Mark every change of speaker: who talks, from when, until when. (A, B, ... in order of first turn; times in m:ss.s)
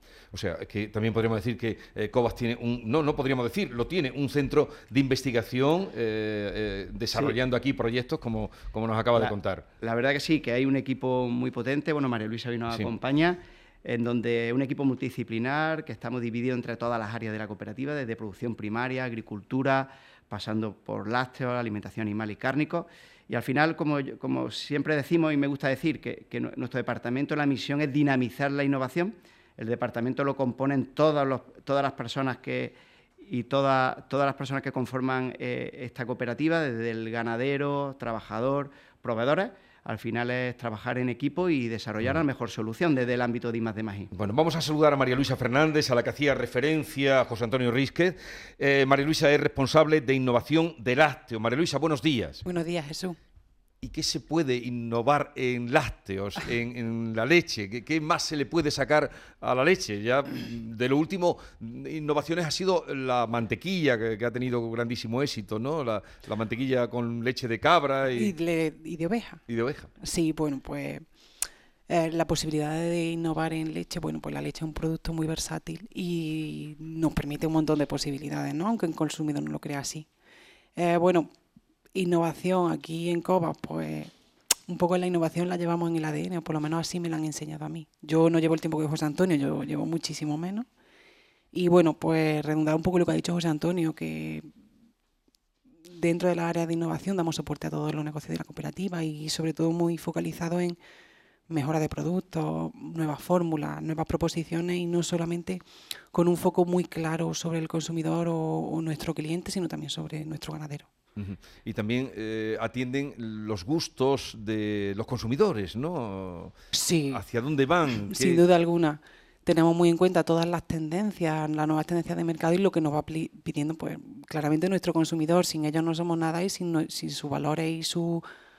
0:00.3-0:09.6 A
0:09.1-0:44.1 B
0:44.1-0:52.4 A
0:52.4-0:53.2 C
0:53.8-1:08.3 A
1:08.1-1:09.4 C
1:09.5-1:09.9 A
1:10.0-1:11.0 C
1:11.9-1:20.0 C
1:20.8-1:21.3 C
1:21.9-1:24.1 C
1:24.7-1:30.6 C
1:31.5-1:34.4 C
1:35.9-1:40.8 C
1:41.5-1:45.6 C
1:46.1-1:50.9 C
1:51.2-1:56.5 A
1:56.7-1:57.2 C
1:57.1-1:58.4 A
1:58.0-2:08.2 C